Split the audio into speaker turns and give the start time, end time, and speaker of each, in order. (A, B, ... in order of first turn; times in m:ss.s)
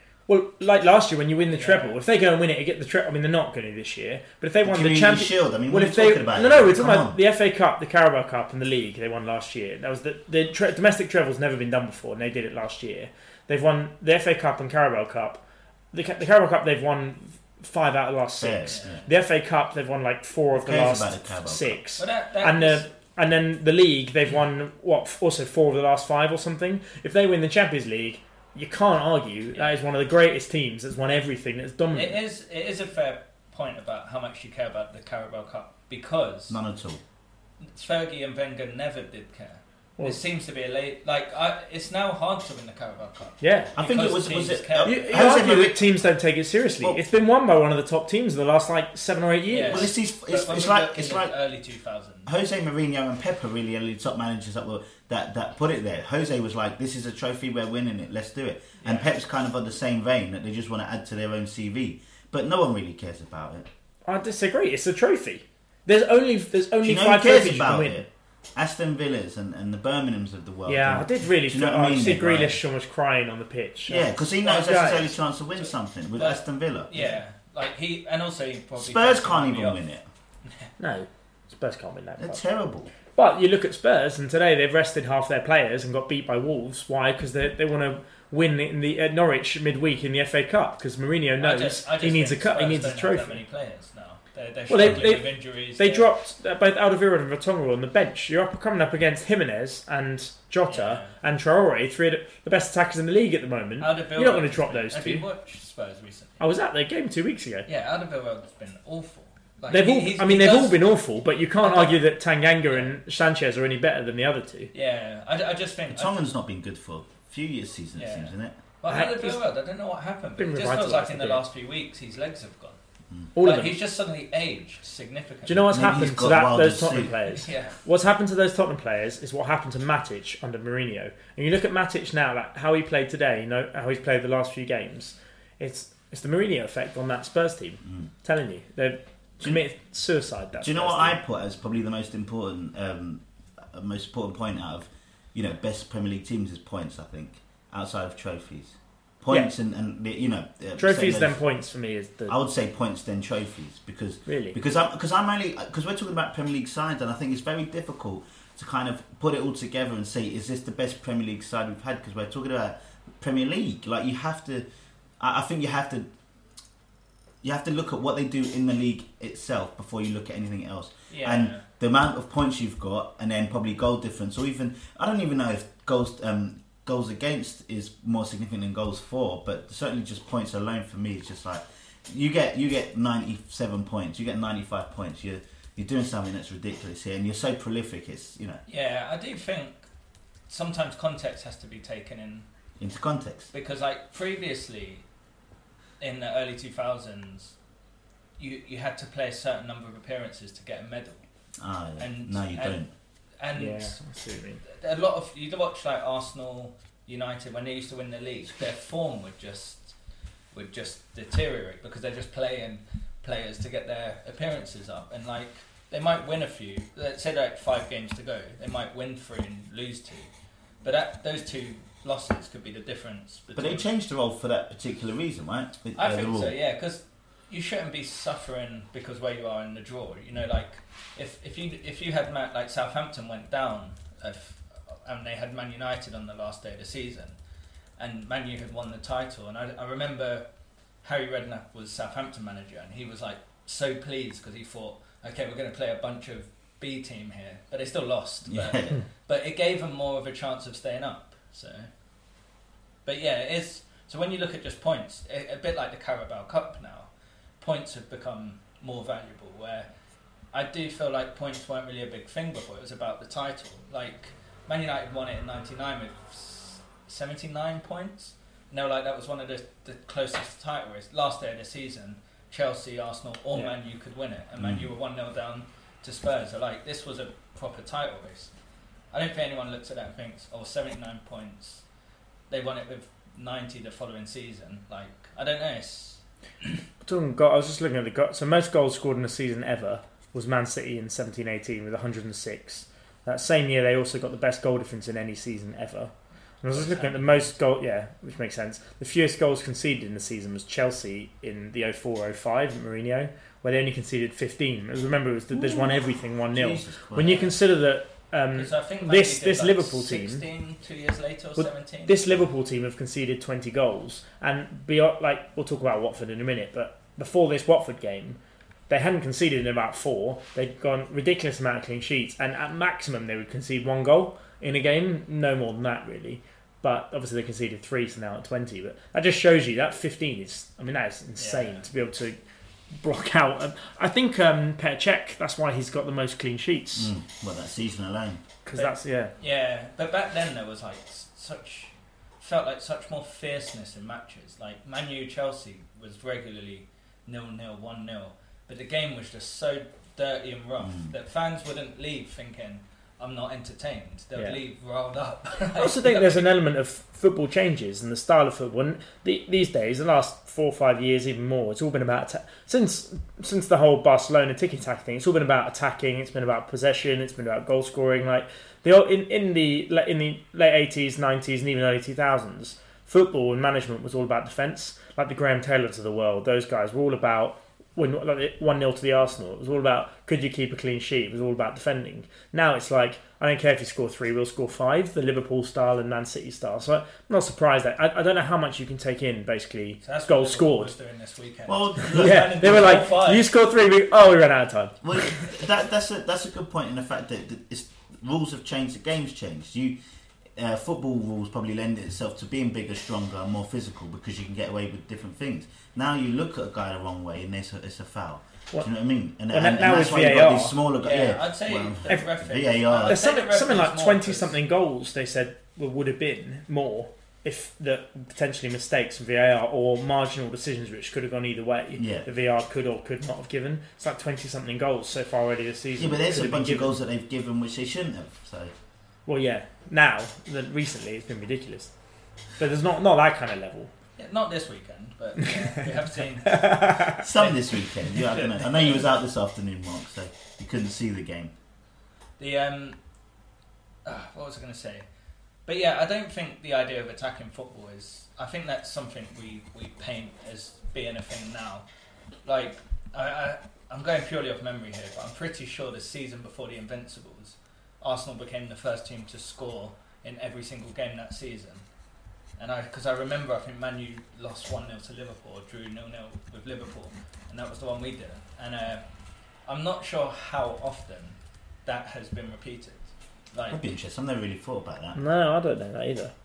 0:00.3-0:32.2 A
0:01.5-0:02.0 B
0:04.6-0:07.2 C
0:18.4-0:19.0 C
0:18.7-0:19.1 B
0:20.5-0:21.8 C
0:22.0-0:22.9 B
0:31.9-0:36.6 B
0:36.5-0:37.0 C
0:37.6-0:45.2 B
0:43.4-0:43.7 A
0:43.8-0:45.8 C
0:44.8-0:49.9 A
0:49.5-0:52.3 B
0:49.6-0:51.4 C
0:52.3-1:03.7 C
0:58.8-0:59.2 B
1:04.1-1:08.0 A
1:06.8-1:12.6 C
1:10.7-1:14.1 A
1:13.9-1:17.2 C
1:14.4-1:15.0 B
1:14.6-1:15.1 A
1:15.6-1:19.8 B
1:18.8-1:20.1 C
1:20.8-1:22.4 A
1:22.2-1:22.9 C
1:23.2-1:33.4 A
1:31.4-1:36.1 B
1:34.7-1:45.2 A
1:40.7-1:41.1 B
1:43.8-1:46.4 B
1:46.4-1:47.7 A
1:47.7-1:50.8 B
1:49.7-1:54.7 A
1:51.6-1:52.1 B
1:52.7-1:53.0 B
1:54.7-1:56.3 B
1:55.9-1:58.6 C
1:57.9-2:02.8 B
1:58.9-1:59.4 A
2:00.4-2:01.4 A
2:03.4-2:03.7 A
2:03.4-2:05.7 B
2:05.5-2:21.2 A
2:05.7-2:07.2 C
2:07.3-2:07.8 B
2:20.6-2:31.4 C
2:30.8-2:32.4 A
2:32.3-2:44.6 C
2:34.3-2:34.6 A
2:45.2-2:46.1 C
2:47.4-3:08.6 C
2:51.1-2:51.6 B
3:08.7-3:09.9 B
3:10.5-3:12.5 B
3:12.8-3:13.5 C
3:13.5-3:15.0 B
3:16.0-3:17.6 B
3:18.4-3:21.2 B
3:21.6-3:22.9 C
3:22.0-3:22.8 B
3:23.4-3:24.0 B
3:23.6-3:24.6 A
3:24.6-3:30.0 B
3:30.5-3:40.3 B
3:40.8-3:43.9 B
3:43.6-3:46.6 C
3:46.0-3:57.4 B
3:58.0-4:00.5 B
4:01.0-4:11.9 B
4:08.5-4:09.0 C
4:13.1-4:17.1 B
4:17.6-4:19.9 B
4:20.5-4:38.5 B
4:34.6-4:34.9 C
4:39.1-4:41.8 B
4:42.5-4:46.7 B
4:47.0-5:10.4 A
4:56.7-4:57.5 B
5:05.5-5:07.6 C
5:08.5-5:12.3 B
5:11.6-5:32.4 A
5:31.4-5:31.9 B
5:33.0-5:37.1 A
5:37.0-5:38.4 C
5:38.6-5:39.3 A
5:38.7-5:56.5 B
5:50.8-5:51.1 C
5:55.8-6:30.9 A
6:30.0-6:33.5 B
6:31.7-6:33.0 C
6:32.1-6:35.4 A
6:35.0-6:40.0 C
6:40.6-6:53.2 C
6:49.5-6:50.8 A
6:51.0-6:54.6 B
6:53.1-7:07.0 A
7:02.0-7:02.3 C
7:06.0-7:08.7 C
7:09.3-7:11.9 A
7:12.6-7:13.9 A
7:14.2-7:19.1 B
7:16.5-7:17.2 A
7:17.2-7:21.5 C
7:22.4-7:23.0 B
7:24.0-7:25.1 B
7:25.7-7:31.8 B
7:32.4-7:41.9 B
7:42.6-7:49.0 B
7:49.7-7:53.8 B
7:53.7-7:55.2 C
7:55.2-7:56.3 A